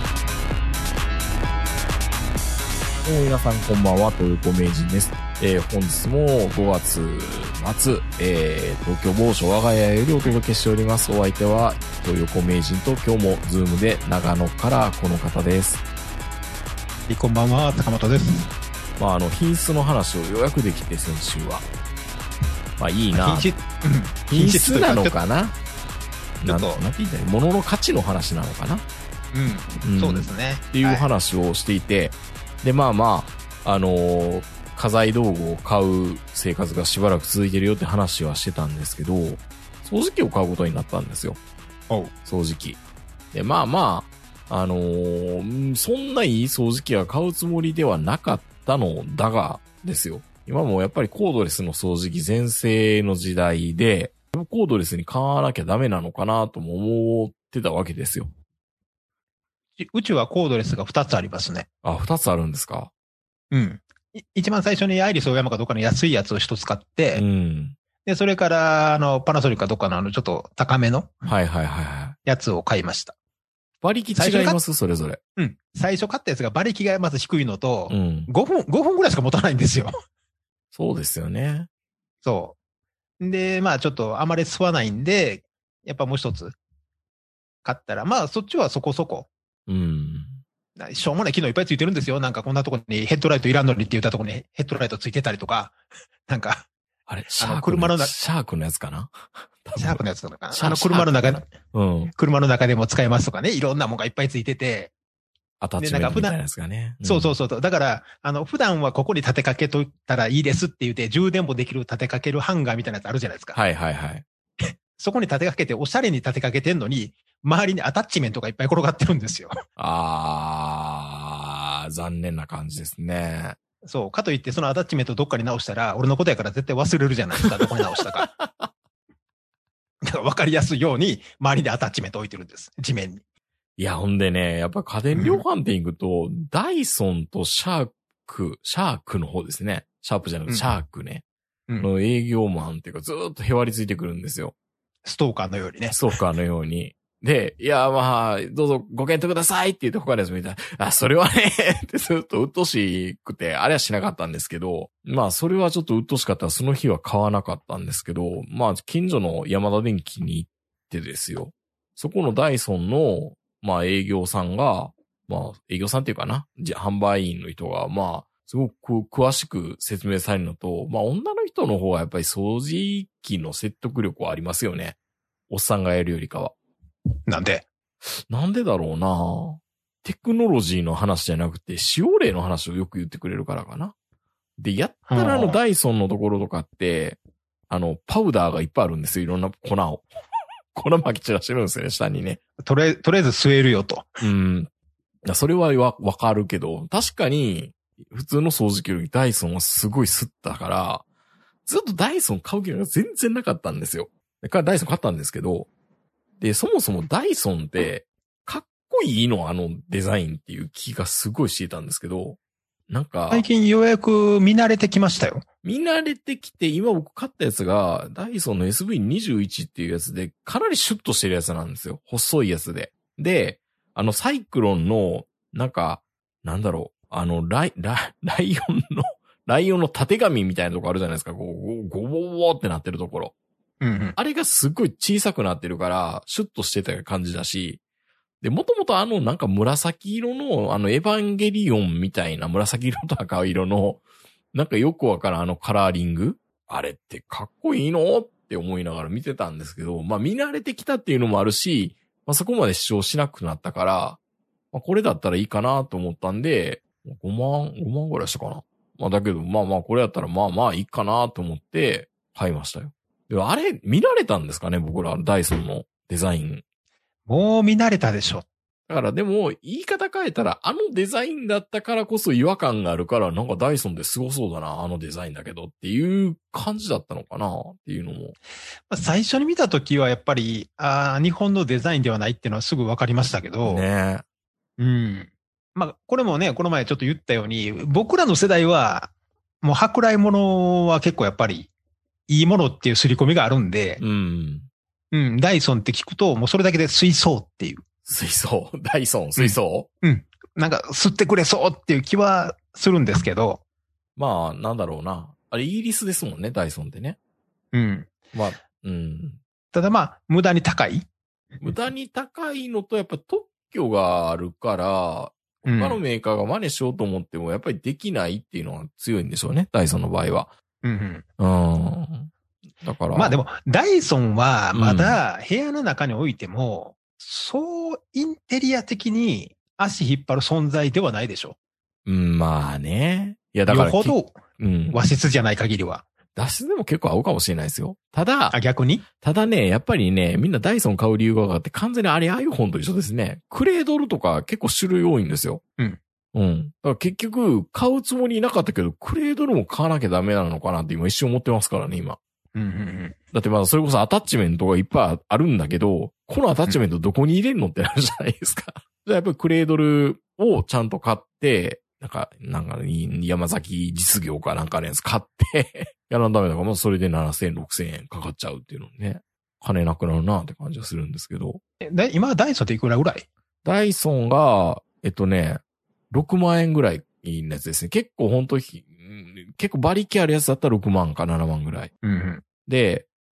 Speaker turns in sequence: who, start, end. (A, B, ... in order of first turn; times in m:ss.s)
0:03.0-0:15.8 A
0:17.1-0:18.5 B
0:19.0-0:21.7 A
0:22.8-0:23.5 A
0:23.1-0:25.2 B
0:24.3-0:25.6 A
0:26.4-0:28.8 A
0:26.4-0:26.8 B
0:29.3-0:31.1 B
0:29.8-0:41.4 A
0:42.2-0:42.8 A
0:43.3-0:58.3 A
0:59.8-1:01.7 B
1:01.8-1:02.9 A
1:03.5-1:07.2 B
1:07.2-1:07.8 A
1:08.0-1:11.3 B
1:11.3-1:12.2 A
1:12.3-1:13.2 B
1:13.8-1:15.2 A
1:14.2-1:14.6 B
1:15.4-1:19.9 B
1:17.9-1:18.3 A
1:20.7-1:21.7 A
1:22.2-1:22.6 B
1:23.2-1:26.6 B
1:27.6-1:29.3 B
1:29.7-1:30.4 A
1:30.8-1:35.8 B
1:36.3-1:36.7 B
1:37.1-1:42.1 A
1:37.4-1:38.1 B
1:39.8-1:41.5 B
1:42.2-1:44.9 B
1:45.6-1:47.4 A
1:45.8-1:46.4 B
1:47.0-1:53.6 B
1:53.6-1:54.2 A
1:55.0-1:59.5 B
1:59.8-2:03.6 A
2:03.8-2:08.3 B
2:08.2-2:08.7 A
2:10.0-2:13.2 B
2:13.8-2:21.2 A
2:15.1-2:15.4 B
2:20.5-2:20.7 B
2:21.8-2:24.5 A
2:25.0-2:26.0 B
2:25.9-2:55.0 A
2:55.5-2:56.5 A
2:57.3-2:57.7 B
2:58.3-3:03.9 A
3:04.6-3:07.2 A
3:05.1-3:05.6 B
3:07.7-3:10.1 A
3:10.7-3:12.4 A
3:12.7-3:14.1 B
3:14.2-3:14.7 A
3:15.2-3:21.0 A
3:21.7-3:25.7 A
3:26.4-3:32.4 A
3:32.9-3:33.5 A
3:33.3-3:35.4 B
3:35.6-3:53.3 A
3:53.8-3:54.2 B
3:54.2-3:57.8 A
3:58.4-4:04.0 A
4:04.5-4:14.2 A
4:14.7-4:26.6 A
4:27.3-4:28.5 B
4:28.9-4:38.4 A
4:38.9-4:43.8 B
4:43.6-4:44.2 A
4:44.8-4:49.1 B
4:49.6-4:51.7 B
4:52.3-4:54.0 B
4:54.0-4:54.7 A
4:55.1-4:57.8 B
4:58.1-4:59.9 A
4:59.4-5:03.6 B
5:04.2-5:07.2 A
5:07.7-5:08.2 B
5:08.3-5:09.4 A
5:09.7-5:11.1 B
5:11.6-5:20.5 A
5:15.6-5:16.0 B
5:20.8-5:21.2 B
5:21.4-5:23.4 A
5:23.1-5:31.6 B
5:24.7-5:25.2 A
5:32.1-5:35.1 A
5:33.7-5:34.4 B
5:34.9-5:36.1 B
5:36.4-5:38.6 A
5:38.5-5:39.0 B
5:39.1-5:45.6 A
5:46.3-5:52.2 A
5:52.6-5:53.2 B
5:53.3-6:11.6 A
6:11.8-6:13.3 B
6:13.6-6:21.9 A
6:22.0-6:22.4 B
6:22.7-6:23.1 A